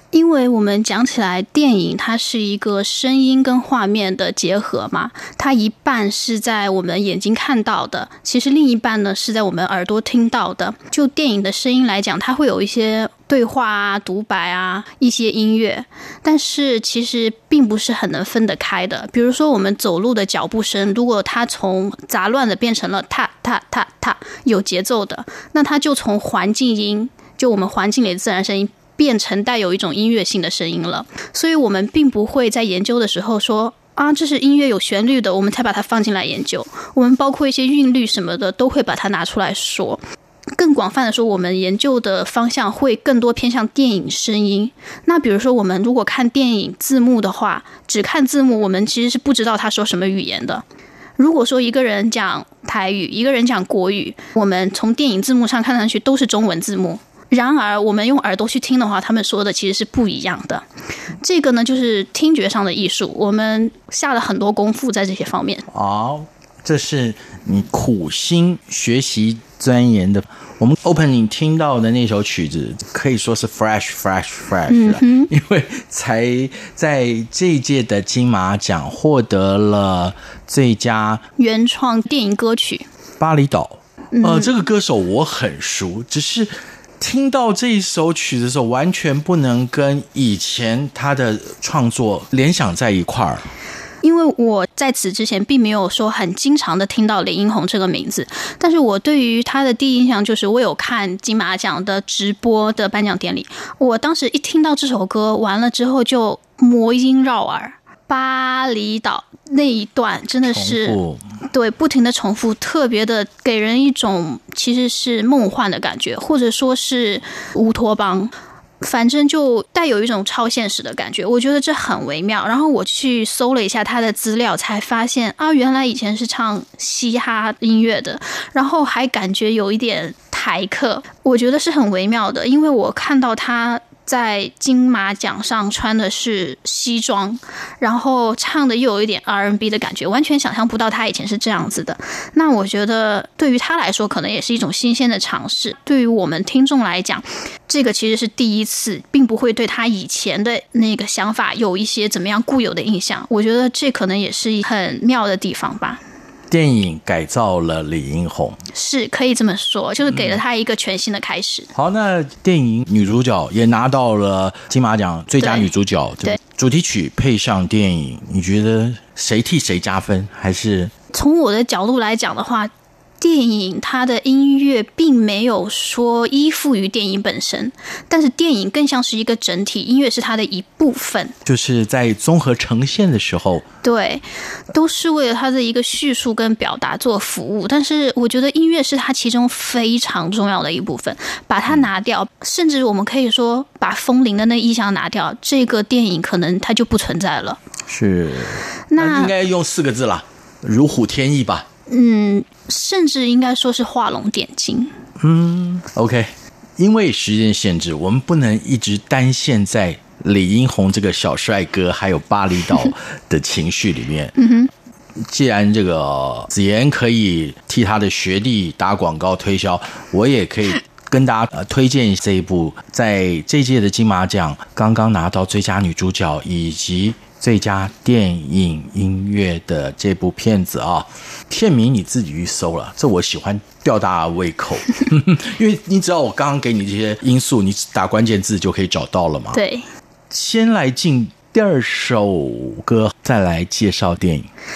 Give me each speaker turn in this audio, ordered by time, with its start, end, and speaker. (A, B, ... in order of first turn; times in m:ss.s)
0:00.1-0:40.0 A
0:40.6-0:50.6 A
0:51.2-1:00.7 A
1:01.2-1:05.6 A
1:05.7-1:21.2 B
1:14.7-1:15.3 A
1:21.4-1:22.9 A
1:23.2-1:33.5 B
1:24.1-1:24.5 A
1:34.0-1:51.0 A
1:50.4-1:51.2 B
1:51.5-2:36.0 A
2:36.5-2:38.6 B
2:38.7-2:41.7 A
2:40.1-2:40.4 B
2:41.8-2:50.9 B
2:45.4-2:45.7 A
2:51.1-3:01.4 A
3:01.4-3:03.6 B
3:03.8-3:17.6 A
3:17.9-3:21.7 B
3:18.9-3:19.3 A
3:21.9-3:24.9 A
3:25.2-3:34.4 B
3:34.4-3:34.7 A
3:35.2-3:59.6 B
3:59.5-3:59.9 A
4:00.3-4:04.5 B